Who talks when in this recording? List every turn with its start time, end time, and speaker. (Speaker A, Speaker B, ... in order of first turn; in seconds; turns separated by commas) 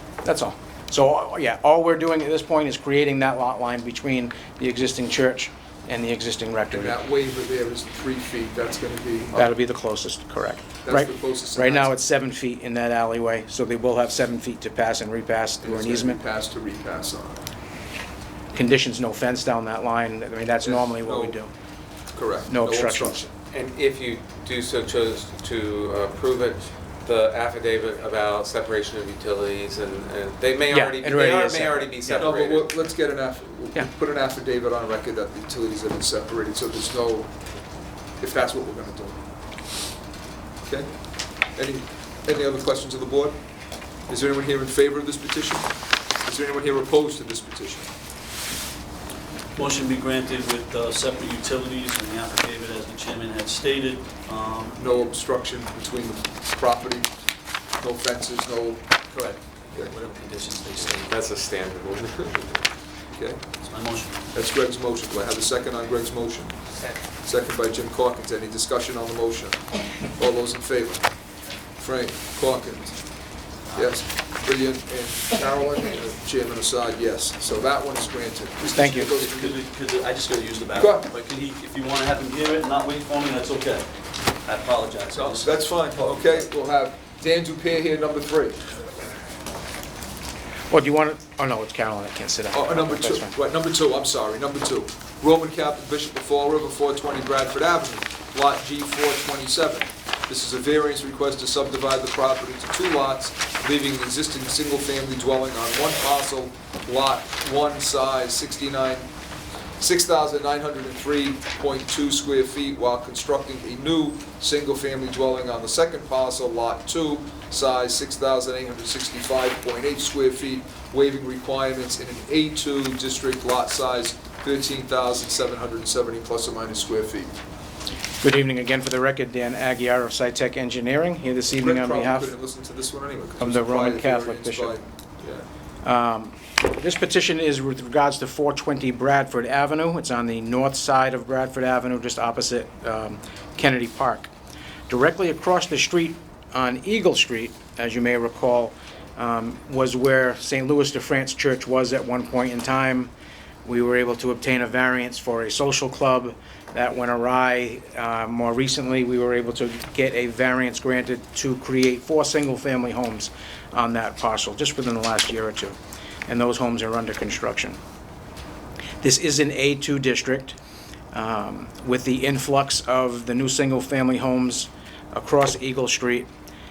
Speaker A: 0.2-7.0, Speaker B: 6.7-9.5, Speaker A: 9.4-16.2, Speaker B: 10.8-11.9, Speaker B: 15.6-17.5, Speaker A: 18.5-21.5, Speaker B: 20.6-21.4, Speaker B: 22.1-23.3, Speaker A: 22.5-23.2, Speaker C: 23.5-32.8, Speaker A: 30.7-32.5, Speaker B: 32.2-37.3, Speaker B: 38.2-39.2, Speaker B: 40.6-40.9, Speaker B: 41.4-43.4, Speaker B: 44.1-45.7, Speaker B: 46.2-47.9, Speaker D: 49.6-55.1, Speaker B: 54.8-57.1, Speaker B: 57.8-58.9, Speaker D: 59.1-61.1, Speaker C: 60.8-62.7, Speaker B: 63.1-63.5, Speaker D: 63.6-64.2, Speaker B: 64.3-66.6, Speaker B: 67.2-71.1, Speaker B: 71.8-73.0, Speaker D: 73.7-74.0, Speaker B: 73.7-79.6, Speaker A: 78.7-79.1, Speaker D: 78.8-86.4, Speaker B: 80.8-81.1, Speaker B: 85.1-88.6, Speaker A: 90.7-93.3, Speaker B: 92.5-109.1, Speaker B: 109.8-127.3, Speaker A: 128.2-132.3, Speaker B: 131.6-135.5, Speaker A: 133.4-134.8, Speaker A: 135.8-144.3, Speaker A: 144.9-153.1, Speaker A: 153.7-167.8, Speaker A: 169.0-170.6, Speaker A: 171.1-176.3